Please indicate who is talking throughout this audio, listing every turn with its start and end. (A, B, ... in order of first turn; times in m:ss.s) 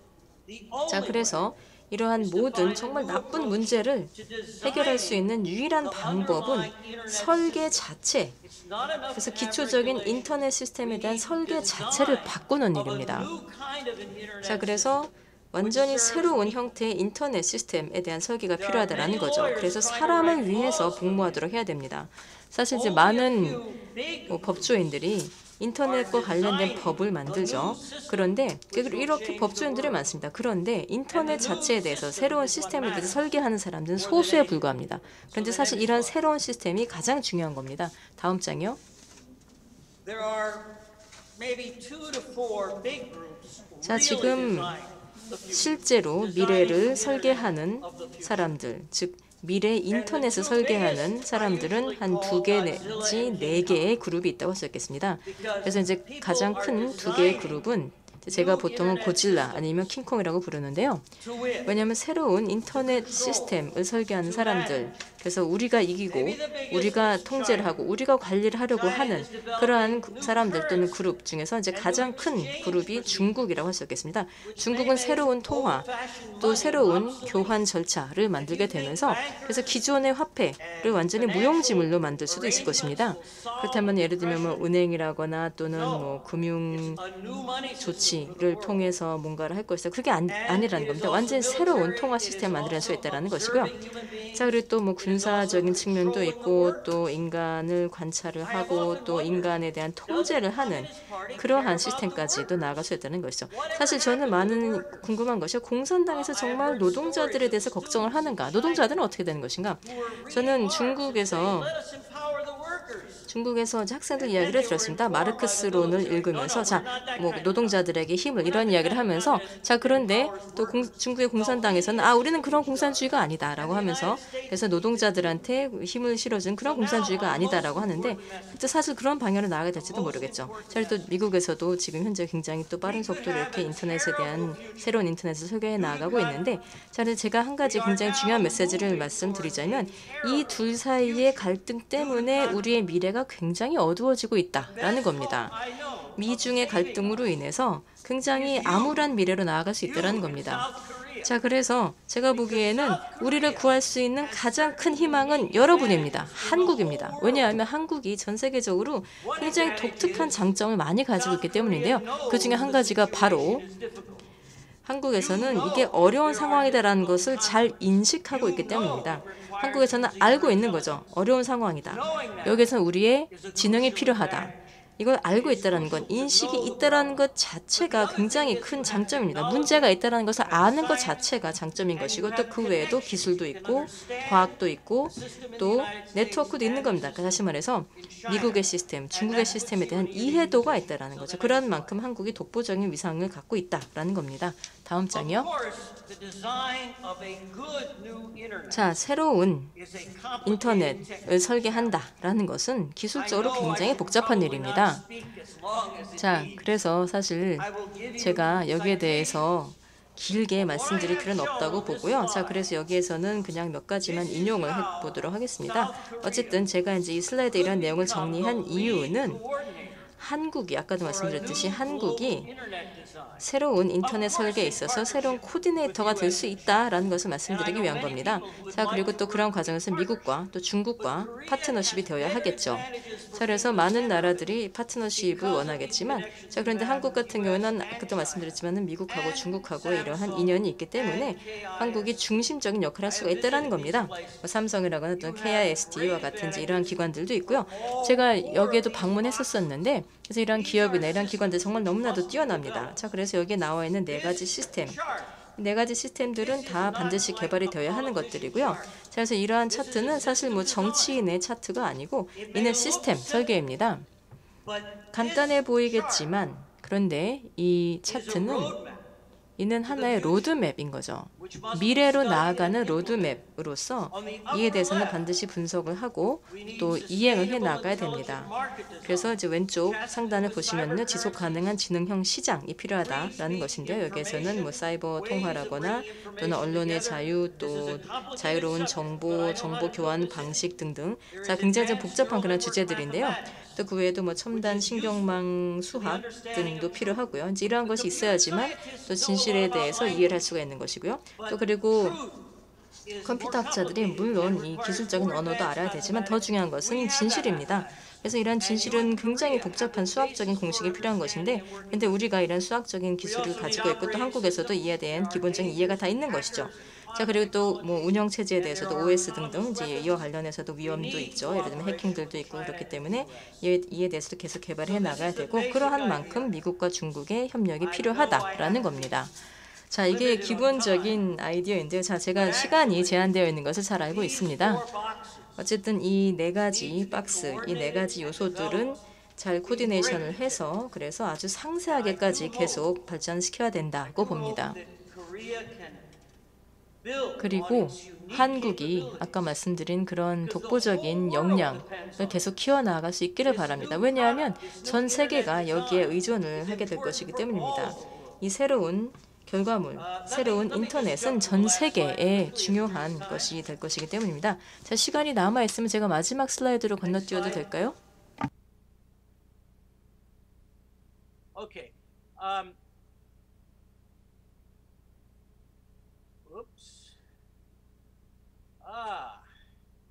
0:00.5-0:01.4 A
0:00.9-0:08.4 B
0:02.2-0:05.3 A
0:05.8-0:07.8 A
0:08.4-0:15.0 A
0:09.1-0:13.3 B
0:14.4-0:23.6 B
0:15.5-0:16.7 A
0:18.6-0:21.4 A
0:22.7-0:24.7 A
0:24.3-0:38.8 B
0:25.8-0:30.1 A
0:31.1-0:33.2 A
0:34.0-0:36.1 A
0:40.0-0:40.7 A
0:41.4-0:48.4 A
0:43.8-0:44.8 B
0:45.5-1:01.1 B
0:49.9-0:53.9 A
0:55.2-0:57.6 A
0:58.3-0:59.9 A
1:01.2-1:01.8 A
1:01.6-1:15.9 B
1:02.7-1:03.6 A
1:04.2-1:04.9 A
1:06.1-1:07.7 A
1:08.8-1:11.0 A
1:11.7-1:13.3 A
1:14.4-1:17.6 A
1:16.4-1:27.0 B
1:18.3-1:19.7 A
1:20.6-1:24.7 A
1:25.7-1:26.2 A
1:26.7-1:28.9 A
1:27.7-1:33.8 B
1:30.3-1:37.0 A
1:34.3-1:51.7 B
1:38.4-1:39.5 A
1:40.0-1:42.8 A
1:43.5-1:45.1 A
1:46.1-1:49.0 A
1:49.8-1:53.2 A
1:53.3-2:25.6 B
1:54.2-1:57.8 A
1:58.4-2:05.4 A
2:06.6-2:08.6 A
2:09.7-2:11.0 A
2:12.8-2:15.0 A
2:15.8-2:16.6 A
2:17.6-2:22.7 A
2:24.7-2:27.2 A
2:26.2-2:30.7 B
2:28.3-2:29.0 A
2:29.8-2:31.3 A
2:31.2-2:43.6 B
2:32.3-2:37.5 A
2:39.2-2:40.4 A
2:41.1-2:44.2 A
2:44.8-3:15.5 B
2:45.1-2:47.8 A
2:48.3-2:51.0 A
2:51.9-2:52.7 A
2:53.3-2:54.6 A
2:55.3-2:57.2 A
2:57.8-3:01.3 A
3:01.9-3:07.4 A
3:08.0-3:08.6 A
3:09.1-3:11.9 A
3:15.1-3:18.8 A
3:18.7-3:19.7 B
3:19.7-3:22.0 A
3:20.4-3:25.0 B
3:23.1-3:26.7 A
3:26.2-3:39.4 B
3:27.6-3:29.4 A
3:30.6-3:32.6 A
3:34.0-3:36.6 A
3:37.5-3:40.0 A
3:40.2-3:42.5 B
3:41.0-3:43.4 A
3:43.4-4:15.0 B
3:44.0-3:46.8 A
3:47.5-3:50.4 A
3:51.0-3:54.5 A
3:55.1-3:58.5 A
3:59.1-4:02.4 A
4:03.0-4:04.4 A
4:05.2-4:06.9 A
4:07.5-4:09.6 A
4:10.5-4:13.0 A
4:14.1-4:15.3 A
4:15.6-4:24.1 B
4:16.4-4:19.0 A
4:19.7-4:21.2 A
4:22.4-4:23.6 A
4:24.6-4:26.3 A
4:25.1-4:28.8 B
4:28.1-4:29.0 A
4:29.6-5:02.2 B
4:29.9-4:30.4 A
4:31.4-4:33.3 A
4:34.1-4:35.2 A
4:36.5-4:41.6 A
4:43.0-4:50.6 A
4:51.3-4:53.8 A
4:54.5-4:55.4 A
4:55.9-4:57.2 A
4:57.7-5:00.4 A
5:01.4-5:02.4 A
5:03.0-5:08.0 A
5:03.2-5:29.4 B
5:08.6-5:12.2 A
5:13.2-5:20.2 A
5:20.8-5:23.5 A
5:24.8-5:26.5 A
5:27.8-5:29.3 A
5:29.9-5:34.9 B
5:30.1-5:31.2 A
5:32.3-5:33.2 A
5:34.1-5:35.5 A
5:35.6-5:44.8 B
5:36.7-5:38.9 A
5:39.6-5:40.7 A
5:41.8-5:42.8 A
5:44.0-5:46.0 A
5:47.0-5:49.3 A
5:47.4-6:08.0 B
5:50.4-5:52.4 A
5:53.4-5:58.3 A
5:59.9-6:03.5 A
6:07.0-6:07.6 A
6:11.5-6:12.7 A
6:16.4-6:17.1 A
6:18.8-6:19.4 A